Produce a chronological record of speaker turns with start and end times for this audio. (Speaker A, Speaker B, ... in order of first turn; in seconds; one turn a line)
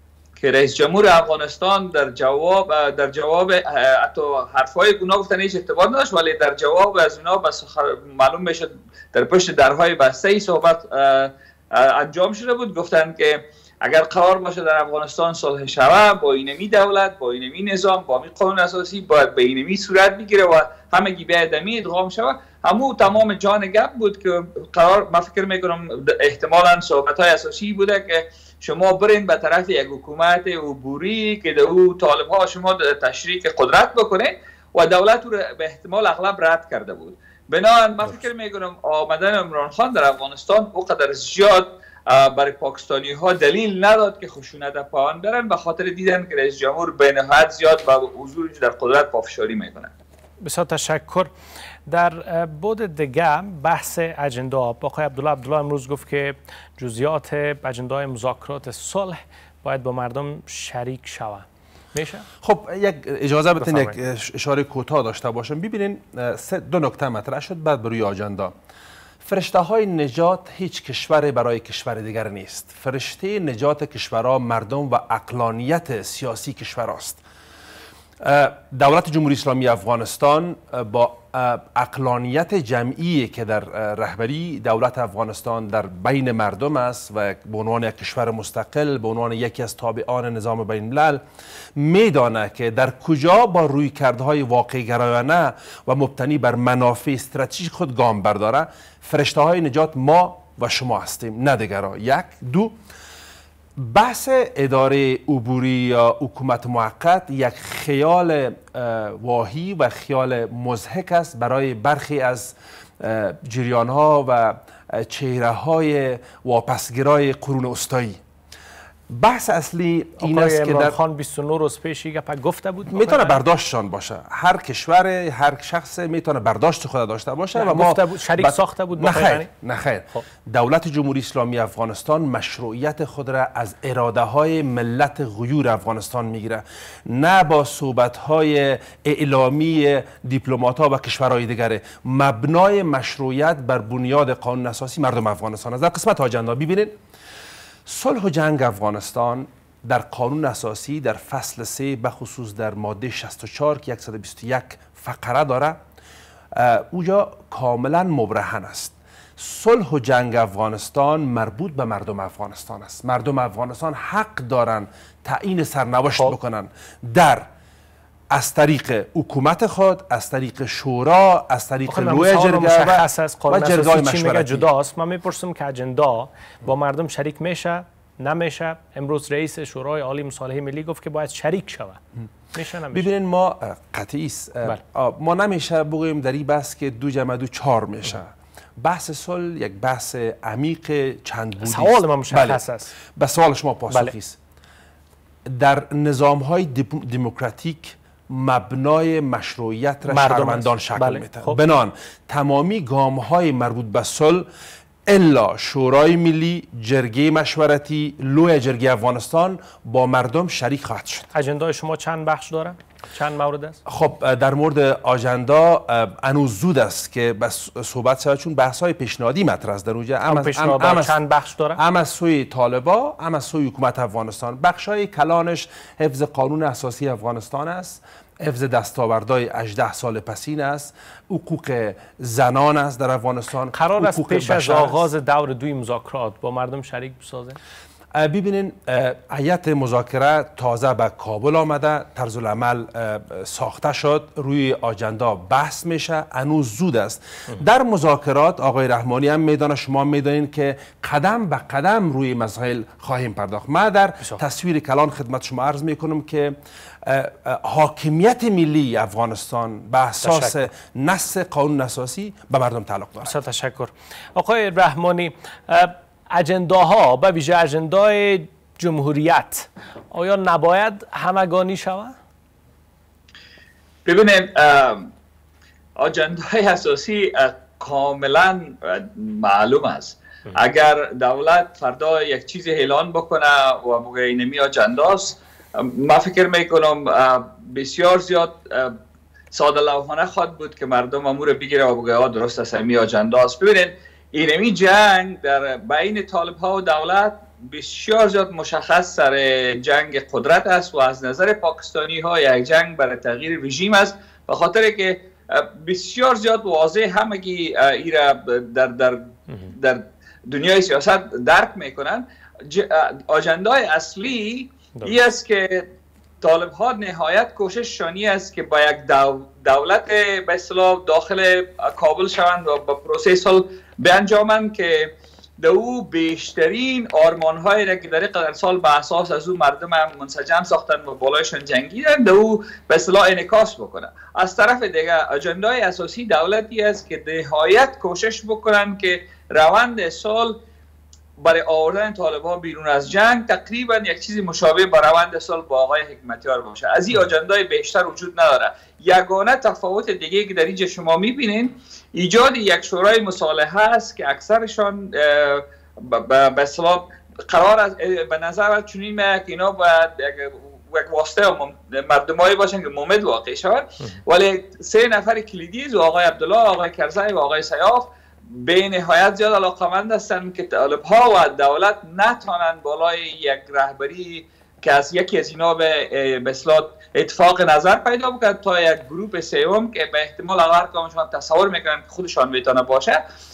Speaker A: 0.4-49.9
Speaker B: 50.4-51.3
Speaker B: 51.9-62.3
Speaker C: 62.4-68.5
Speaker B: 63.6-64.0
Speaker C: 69.2-77.2
Speaker C: 78.2-91.2
Speaker C: 91.8-102.8
Speaker C: 103.8-118.2
Speaker C: 119.1-121.0
Speaker B: 120.2-123.4
Speaker C: 122.9-146.9
Speaker B: 127.5-129.5
Speaker C: 147.9-155.8
Speaker C: 156.5-167.5
Speaker C: 168.3-174.7
Speaker B: 171.9-182.0
Speaker B: 182.5-183.1
Speaker C: 182.9-194.4
Speaker B: 191.6-192.9
Speaker C: 195.5-204.5
Speaker B: 200.0-201.6
Speaker C: 205.1-211.3
Speaker B: 211.3-213.8
Speaker C: 213.9-221.2
Speaker B: 220.3-221.8
Speaker C: 221.8-235.1
Speaker B: 233.7-237.6
Speaker C: 238.1-263.4
Speaker B: 260.2-260.7
Speaker B: 263.2-272.1
Speaker A: 274.1-275.1
Speaker A: 276.0-288.9
Speaker A: 289.5-315.9
Speaker A: 316.4-340.6
Speaker A: 341.4-383.2